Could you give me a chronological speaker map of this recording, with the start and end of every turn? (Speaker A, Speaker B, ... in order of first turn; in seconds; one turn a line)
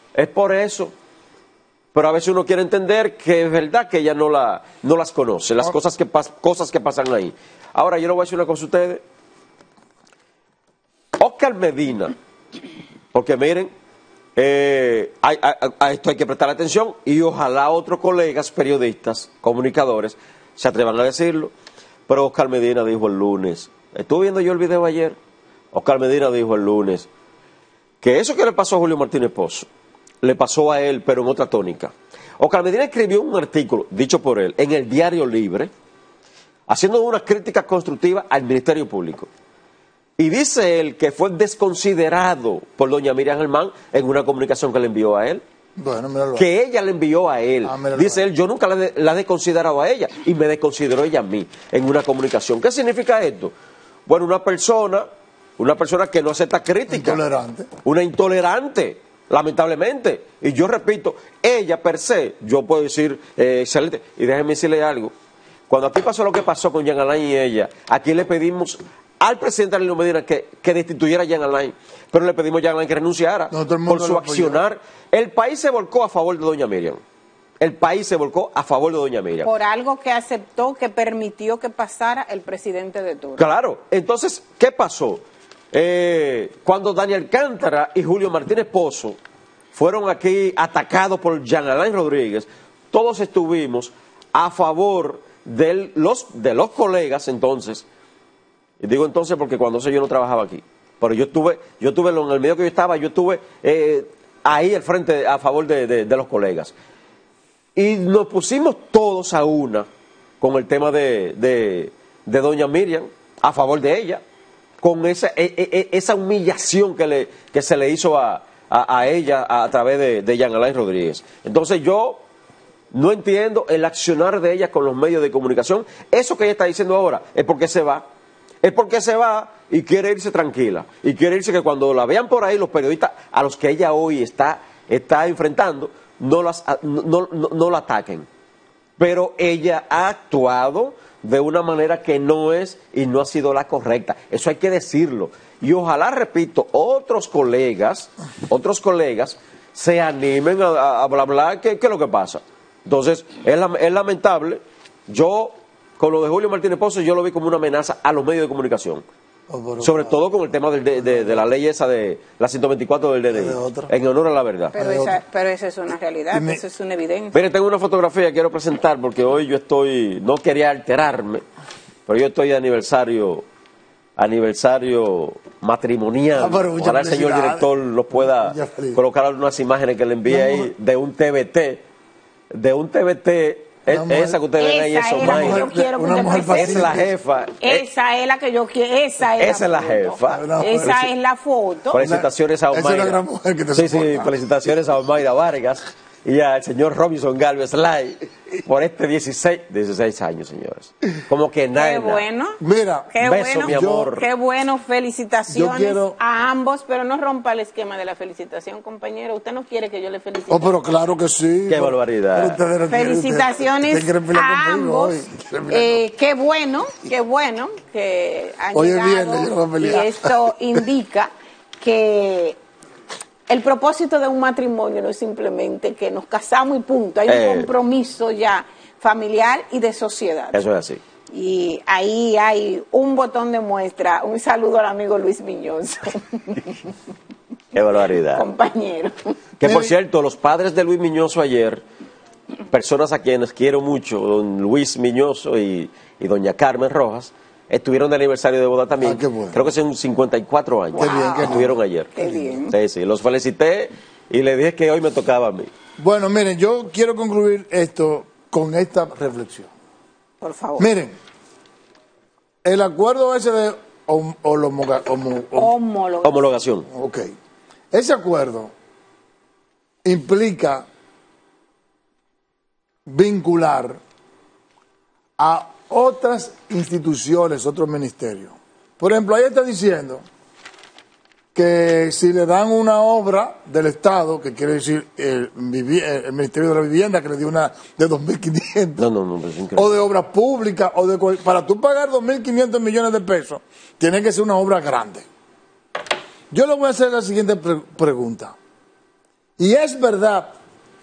Speaker A: 0.1-0.9
Speaker A: 1.9-9.0
Speaker A: 11.2-12.2
Speaker A: 13.1-13.7
Speaker A: 14.3-21.5
Speaker A: 22.1-25.2
Speaker A: 25.7-27.1
Speaker A: 28.0-29.7
Speaker A: 30.2-35.7
Speaker A: 36.7-39.3
Speaker A: 40.2-45.4
Speaker B: 45.8-46.5
Speaker A: 46.4-53.5
Speaker B: 47.6-48.3
Speaker A: 54.1-55.0
Speaker A: 55.6-57.2
Speaker B: 56.9-57.7
Speaker A: 57.8-65.1
Speaker A: 65.7-77.0
Speaker B: 73.5-74.6
Speaker A: 77.6-79.5
Speaker C: 79.4-83.4
Speaker A: 83.4-89.2
Speaker A: 89.7-97.8
Speaker A: 98.8-106.7
Speaker A: 107.8-109.9
Speaker A: 110.4-114.2
Speaker A: 114.8-122.2
Speaker A: 122.9-128.0
Speaker A: 128.6-138.3
Speaker A: 139.0-159.0
Speaker B: 159.5-160.2
Speaker A: 159.8-164.7
Speaker B: 161.0-161.4
Speaker B: 163.3-163.9
Speaker C: 164.7-167.4
Speaker B: 164.8-165.2
Speaker B: 166.3-166.6
Speaker A: 167.3-171.4
Speaker A: 172.1-173.4
Speaker A: 174.2-181.8
Speaker B: 176.3-179.0
Speaker B: 180.2-180.7
Speaker A: 182.5-185.7
Speaker B: 183.9-184.4
Speaker C: 184.6-186.9
Speaker B: 185.2-187.1
Speaker A: 186.4-187.8
Speaker C: 187.6-192.0
Speaker A: 189.4-191.1
Speaker B: 190.3-191.1
Speaker A: 191.9-193.2
Speaker B: 191.9-194.3
Speaker A: 193.7-202.2
Speaker C: 201.7-202.6
Speaker B: 202.6-204.1
Speaker C: 203.1-210.8
Speaker A: 203.2-204.2
Speaker B: 205.5-206.2
Speaker B: 210.5-216.0
Speaker A: 211.7-212.6
Speaker C: 212.9-222.6
Speaker B: 218.7-220.5
Speaker C: 223.5-230.6
Speaker A: 227.3-227.7
Speaker A: 230.5-231.0
Speaker C: 231.3-236.7
Speaker A: 237.7-238.5
Speaker C: 238.3-239.3
Speaker A: 239.6-241.8
Speaker B: 239.6-239.9
Speaker A: 242.7-255.7
Speaker B: 249.0-249.7
Speaker C: 250.9-251.6
Speaker B: 251.0-251.8
Speaker C: 252.1-252.7
Speaker B: 256.0-259.7
Speaker C: 260.4-260.9
Speaker B: 260.8-261.1
Speaker B: 262.6-265.7
Speaker C: 265.6-266.4
Speaker A: 266.2-266.9
Speaker B: 266.9-267.3
Speaker B: 267.9-268.7
Speaker B: 270.0-270.9
Speaker B: 273.1-274.0
Speaker B: 275.4-280.2
Speaker B: 281.5-289.0
Speaker A: 289.0-289.9
Speaker B: 289.8-295.2
Speaker B: 296.5-298.6
Speaker B: 299.6-300.5